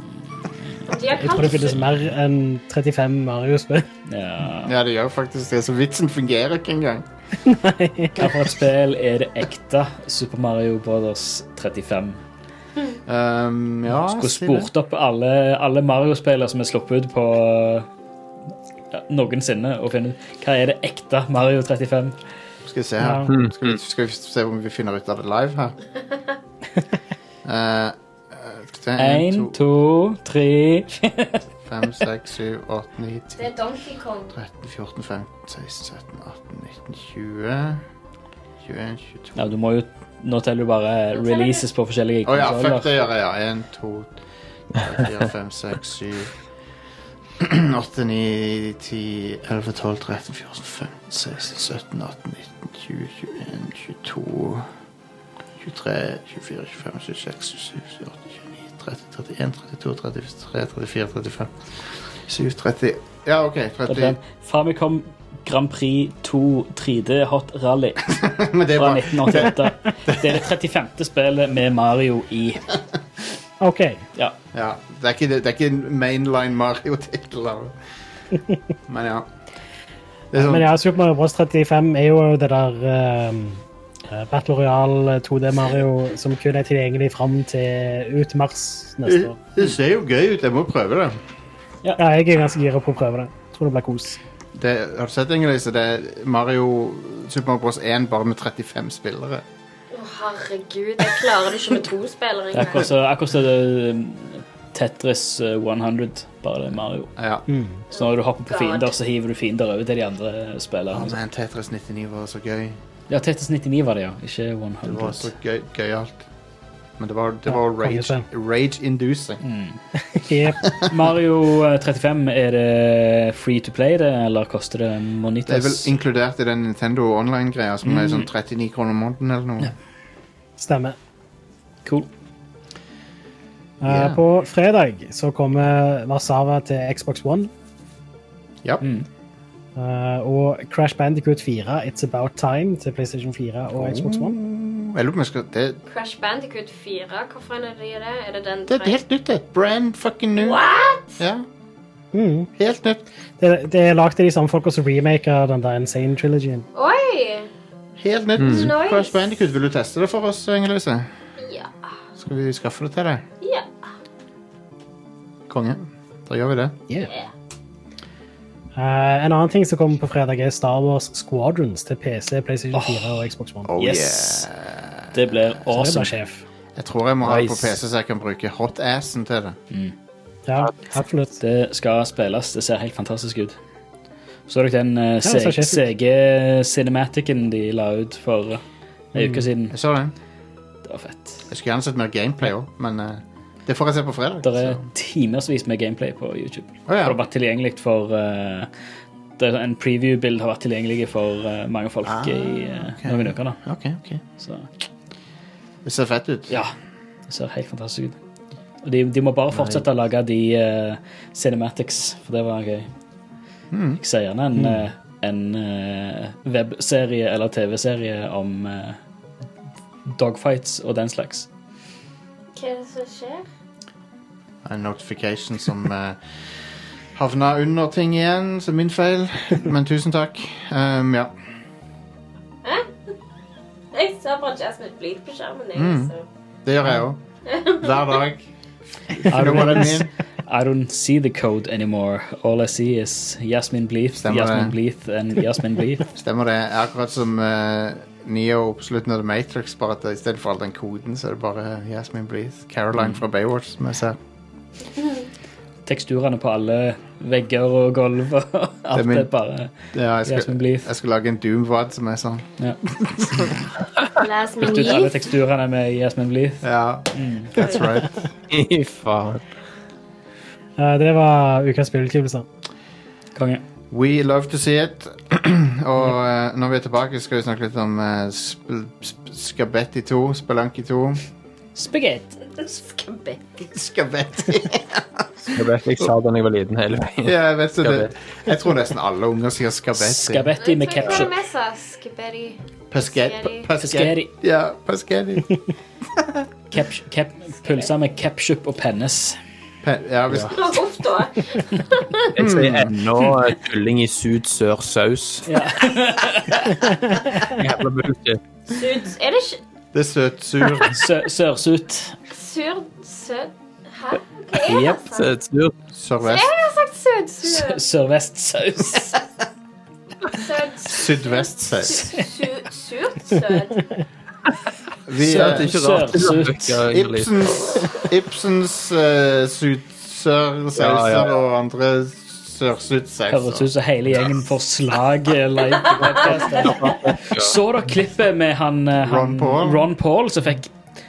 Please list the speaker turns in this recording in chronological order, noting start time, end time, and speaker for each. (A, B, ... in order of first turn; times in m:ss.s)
0:00.9-0:01.8 A
0:01.2-0:03.9 B
0:04.1-0:04.8 C
0:04.6-0:07.0 D
0:07.5-0:08.6 B
0:08.2-0:12.2 C
0:13.1-0:14.7 D
0:13.9-0:17.9 C
0:18.9-0:22.2 C
0:22.6-0:25.8 D
0:23.0-0:23.3 B
0:23.3-0:23.8 E
0:27.4-0:29.6 D
0:29.0-0:31.4 C
0:31.7-0:33.5 D
0:33.4-0:34.3 A
0:34.3-0:37.8 D
0:38.6-0:39.5 D
0:39.4-0:42.9 C
0:41.2-0:41.6 A
0:42.2-0:44.1 D
0:44.7-0:46.3 D
0:47.4-0:54.7 D
0:55.6-1:01.6 D
1:02.1-1:04.2 D
1:03.9-1:08.2 C
1:08.2-1:10.4 D
1:08.8-1:12.8 C
1:13.6-1:14.0 B
1:14.5-1:17.8 D
1:18.9-1:19.3 D
1:20.3-1:20.7 D
1:20.4-1:29.4 B
1:29.1-1:31.2 D
1:32.0-1:34.2 B
1:34.6-1:39.4 D
1:39.9-1:42.9 A
1:42.5-1:47.1 C
1:47.2-1:47.4 D
1:47.5-1:47.8 B
1:47.9-1:48.9 A
1:47.9-1:51.2 C
1:50.9-1:52.8 D
1:53.1-1:55.3 C
1:54.8-1:56.2 D
1:57.0-1:59.4 D
1:57.5-1:58.3 B
1:59.4-1:59.8 C
2:00.0-2:00.6 B
2:00.6-2:00.9 D
2:00.9-2:05.9 C
2:05.5-2:09.7 D
2:10.6-2:11.0 B
2:13.8-2:17.5 B
2:13.9-2:14.2 D
2:19.8-2:24.4 B
2:23.7-2:25.8 D
2:25.9-2:29.0 A
2:28.7-2:30.6 D
2:30.4-2:31.2 A
2:31.2-2:31.4 D
2:32.1-2:32.5 B
2:32.6-2:33.0 D
2:33.4-2:36.6 B
2:36.7-2:37.5 A
2:38.0-2:41.1 D
2:38.4-2:38.7 E
2:38.5-2:39.3 A
2:41.4-2:41.7 A
2:42.2-2:43.2 D
2:43.4-2:43.7 A
2:45.5-2:46.8 D
2:47.0-2:47.3 A
2:48.8-2:53.7 B
2:52.7-2:53.3 C
2:53.6-2:55.4 D
2:53.8-2:54.5 C
2:55.1-2:56.1 C
2:55.7-2:56.4 B
2:56.8-2:59.6 D
2:57.2-2:57.7 E
3:00.5-3:01.4 B
3:01.4-3:03.6 C
3:04.5-3:08.6 C
3:05.2-3:05.9 B
3:09.1-3:09.8 C
3:09.2-3:09.5 B
3:09.7-3:10.1 D
3:10.8-3:11.4 C
3:11.5-3:14.8 D
3:14.4-3:18.7 C
3:16.9-3:17.2 D
3:19.4-3:23.6 C
3:22.0-3:24.2 D
3:24.4-3:24.7 C
3:25.8-3:26.6 D
3:27.3-3:28.2 C
3:28.8-3:32.9 C
3:33.7-3:34.0 D
3:34.0-3:39.0 C
3:34.6-3:34.8 B
3:40.1-3:41.5 C
3:42.6-3:43.5 A
3:44.6-3:51.3 D
3:53.9-3:56.2 A
3:55.8-3:56.1 D
3:56.6-3:57.2 D
3:57.5-3:58.2 A
3:57.8-3:58.5 D
3:59.2-4:00.1 D
3:59.3-4:06.1 C
4:04.1-4:04.8 D
4:06.1-4:14.2 D
4:15.9-4:19.7 C
4:18.9-4:19.3 D
4:19.9-4:22.4 D
4:20.2-4:20.9 C
4:23.0-4:23.5 D
4:24.2-4:25.2 A
4:24.6-4:27.6 C
4:26.6-4:28.2 D
4:28.5-4:29.4 E
4:30.8-4:32.5 B
4:33.4-4:33.6 C
4:33.9-4:41.2 D
4:41.8-4:42.4 C
4:42.6-4:43.7 A
4:43.7-4:46.1 D
4:45.5-4:48.1 E
4:47.2-4:50.5 D
4:50.0-4:51.4 C
4:50.6-4:53.7 A
4:52.9-4:55.6 D
4:53.8-4:54.3 C
4:56.2-4:56.4 D
4:56.7-4:59.4 C
4:57.6-4:57.9 A
4:59.8-5:00.8 D
5:00.5-5:02.3 A
5:02.4-5:05.5 E
5:02.4-5:03.0 D
5:05.5-5:07.0 C
5:07.4-5:08.4 E
5:08.7-5:09.6 A
5:09.9-5:11.0 D
5:10.9-5:12.2 C
5:12.3-5:15.3 A
5:14.7-5:15.0 C
5:15.1-5:15.8 E
5:15.9-5:16.5 D
5:16.2-5:17.8 A
5:17.4-5:19.2 C
5:20.2-5:23.9 A
5:20.9-5:22.1 D
5:21.9-5:22.2 C
5:25.1-5:25.8 D
5:25.2-5:26.8 C
5:25.3-5:27.5 E
5:26.9-5:33.7 D
5:30.8-5:31.3 E
5:33.3-5:40.7 C
5:36.0-5:36.8 A
5:36.2-5:37.6 E
5:39.0-5:39.9 D